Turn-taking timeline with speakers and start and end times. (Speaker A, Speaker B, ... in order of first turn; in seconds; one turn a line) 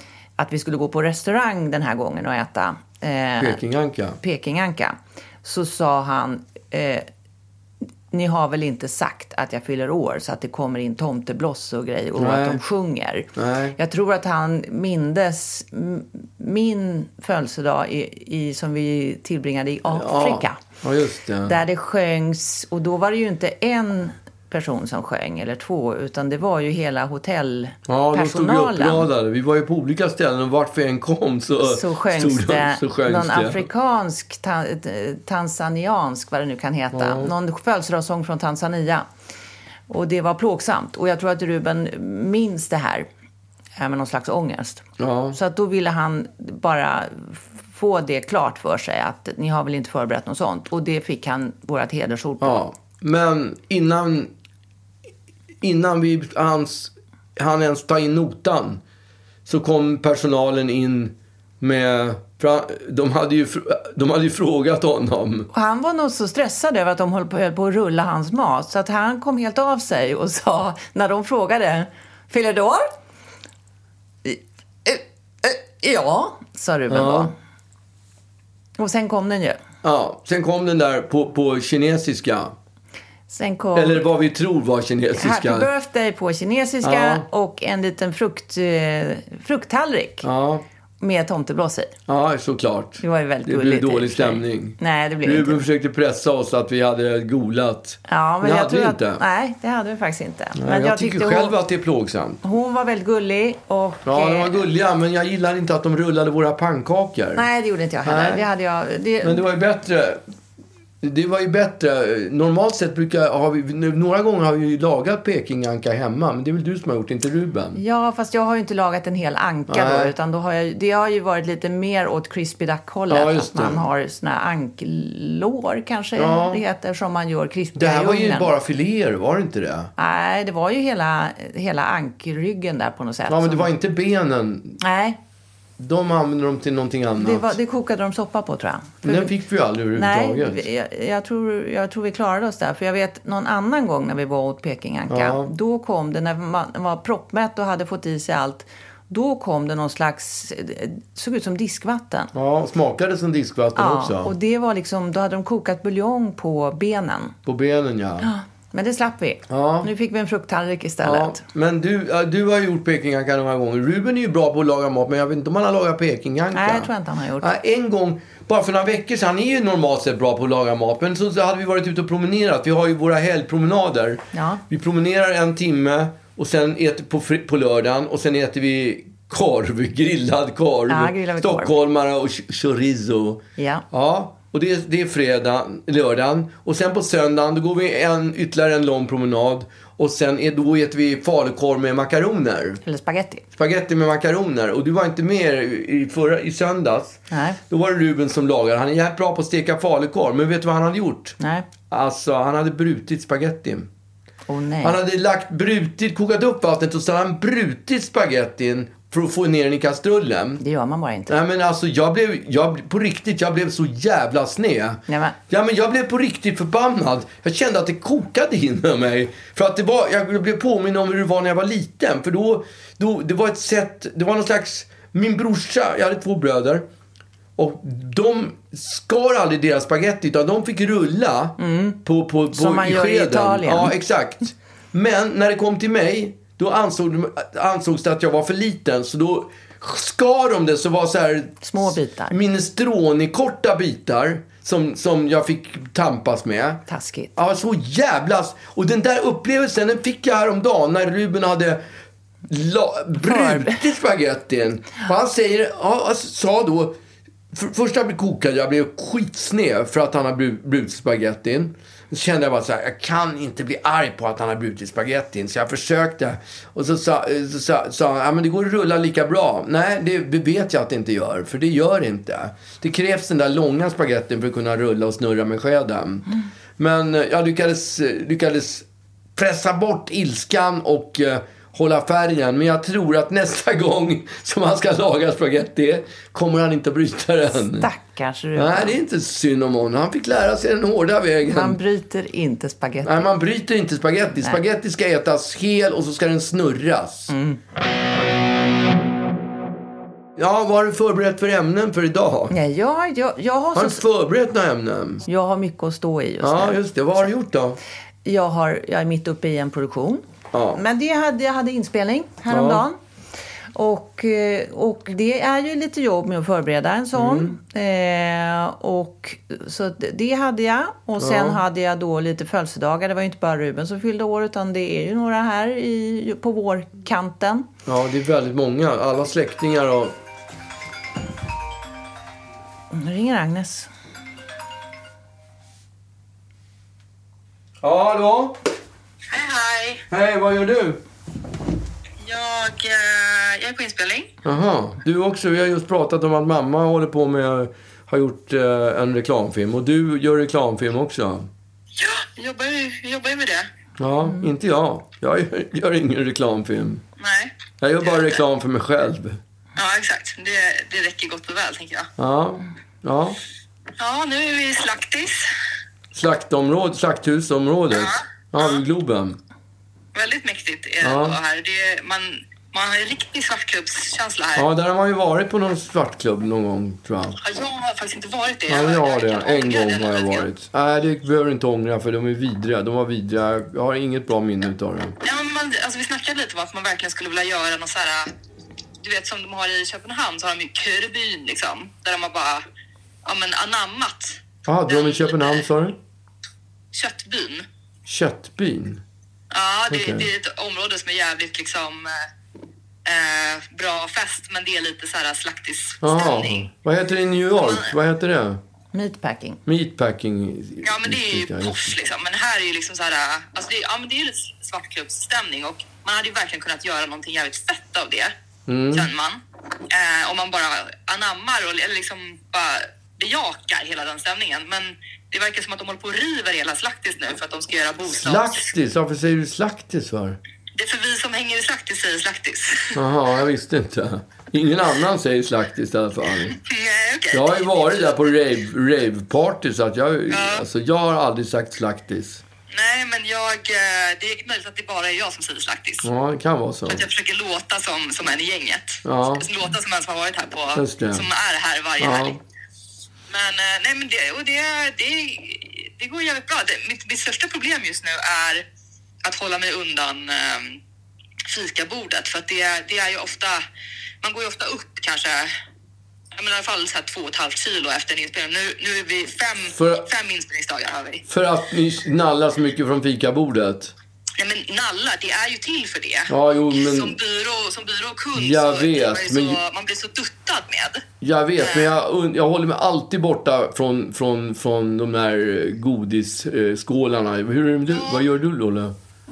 Speaker A: 0.4-3.6
Speaker B: 3.4-4.2
Speaker A: 4.2-7.1
Speaker A: 8.1-20.6
Speaker B: 12.2-12.6
Speaker B: 13.3-13.8
Speaker B: 19.9-21.6
Speaker A: 21.4-29.1
Speaker B: 27.9-33.7
Speaker A: 31.6-39.1
Speaker B: 36.9-37.3
Speaker A: 39.9-43.1
Speaker A: 43.8-52.6
Speaker B: 45.0-45.4
Speaker B: 52.4-54.3
Speaker B: 55.6-58.8
Speaker B: 59.5-65.5
Speaker A: 65.5-72.9
Speaker A: 74.2-77.3
Speaker B: 76.9-77.3
Speaker A: 78.8-79.6
Speaker B: 79.8-82.5
Speaker A: 83.3-84.0
Speaker B: 83.7-85.7
Speaker A: 85.2-90.3
Speaker B: 86.8-87.2
Speaker B: 90.2-90.6
Speaker A: 91.0-91.9
Speaker B: 92.1-99.2
Speaker A: 93.0-95.6
Speaker A: 98.1-101.6
Speaker B: 100.6-102.4
Speaker A: 102.4-104.6
Speaker B: 104.0-107.5
Speaker A: 107.3-109.4
Speaker B: 108.0-108.5
Speaker B: 109.2-110.2
Speaker B: 111.0-117.8
Speaker A: 117.7-128.5
Speaker B: 119.7-120.1
Speaker B: 123.1-123.9
Speaker B: 126.2-126.6
Speaker B: 127.8-129.9
Speaker A: 130.0-133.7
Speaker B: 133.3-134.8
Speaker A: 134.8-135.2
Speaker B: 135.8-137.6
Speaker A: 137.2-139.3
Speaker B: 139.0-140.6
Speaker A: 139.9-152.3
Speaker B: 145.1-145.5
Speaker B: 152.3-154.3
Speaker A: 153.8-157.3
Speaker B: 157.4-158.3
Speaker A: 158.2-161.4
Speaker B: 159.5-159.9
Speaker B: 161.0-166.9
Speaker A: 166.5-167.5
Speaker B: 167.4-192.8
Speaker A: 174.3-174.6
Speaker A: 180.9-181.7
Speaker A: 183.6-183.8
Speaker A: 192.8-193.4
Speaker B: 193.5-201.4
Speaker A: 197.3-197.6
Speaker A: 201.4-201.7
Speaker B: 201.9-203.9
Speaker A: 204.5-205.0
Speaker B: 204.8-210.6
Speaker A: 210.6-211.4
Speaker B: 211.3-226.8
Speaker A: 215.1-215.4
Speaker B: 227.6-246.8
Speaker A: 231.6-232.0
Speaker A: 232.5-233.9
Speaker A: 241.6-242.3
Speaker A: 246.9-247.3
Speaker B: 247.3-251.8
Speaker B: 252.5-256.9
Speaker A: 253.2-253.8
Speaker B: 257.5-278.8
Speaker B: 279.4-287.9
Speaker A: 287.8-289.0
Speaker B: 288.5-291.8
Speaker A: 291.4-293.3
Speaker B: 293.0-297.3
Speaker A: 297.3-297.6
Speaker B: 300.4-302.5
Speaker A: 302.5-304.0
Speaker B: 303.7-305.2
Speaker A: 305.2-307.3
Speaker B: 306.4-307.8
Speaker A: 308.2-313.0
Speaker B: 310.5-310.8
Speaker B: 312.5-312.8
Speaker A: 313.7-327.7
Speaker B: 317.1-317.5
Speaker B: 321.2-321.6
Speaker B: 327.9-330.1
Speaker A: 332.9-333.9
Speaker B: 337.8-338.6
Speaker C: 339.3-340.1
Speaker B: 340.1-341.0
Speaker C: 342.2-344.3
Speaker B: 344.4-351.5
Speaker C: 352.0-353.7
Speaker B: 354.0-357.0
Speaker C: 357.2-358.4
Speaker B: 357.8-359.4
Speaker C: 359.8-362.1
Speaker B: 362.2-363.4
Speaker C: 364.0-365.4
Speaker B: 366.1-369.4
Speaker C: 367.9-368.8
Speaker C: 370.1-374.7
Speaker B: 371.0-371.4
Speaker B: 374.6-377.4
Speaker C: 377.4-380.5
Speaker B: 378.7-385.1
Speaker C: 385.2-388.3
Speaker C: 389.0-392.6
Speaker C: 393.2-395.6
Speaker B: 394.6-395.9
Speaker C: 396.9-397.6
Speaker B: 398.1-399.0
Speaker C: 399.5-402.2
Speaker B: 399.9-400.3
Speaker C: 403.0-406.7
Speaker B: 406.0-408.6
Speaker C: 407.6-407.9
Speaker A: 408.9-409.6
Speaker B: 409.6-411.9
Speaker C: 410.8-418.3
Speaker B: 418.7-419.1
Speaker C: 418.9-419.4
Speaker C: 419.9-428.6
Speaker B: 428.1-430.4
Speaker C: 430.8-433.0
Speaker B: 432.9-436.6
Speaker C: 436.6-438.3
Speaker B: 437.3-442.4
Speaker C: 440.3-440.6
Speaker C: 442.7-446.1
Speaker B: 446.0-447.1
Speaker C: 446.9-452.4
Speaker B: 449.1-449.4
Speaker B: 450.8-451.2
Speaker B: 452.0-452.4
Speaker C: 453.3-458.6
Speaker C: 459.2-460.8
Speaker C: 461.5-463.6
Speaker C: 464.2-465.5
Speaker C: 466.4-471.2
Speaker B: 469.7-470.1
Speaker B: 471.3-473.9
Speaker C: 474.4-481.0
Speaker B: 476.3-477.2
Speaker B: 478.3-479.6
Speaker B: 481.2-488.9
Speaker C: 481.6-481.9
Speaker C: 487.9-488.3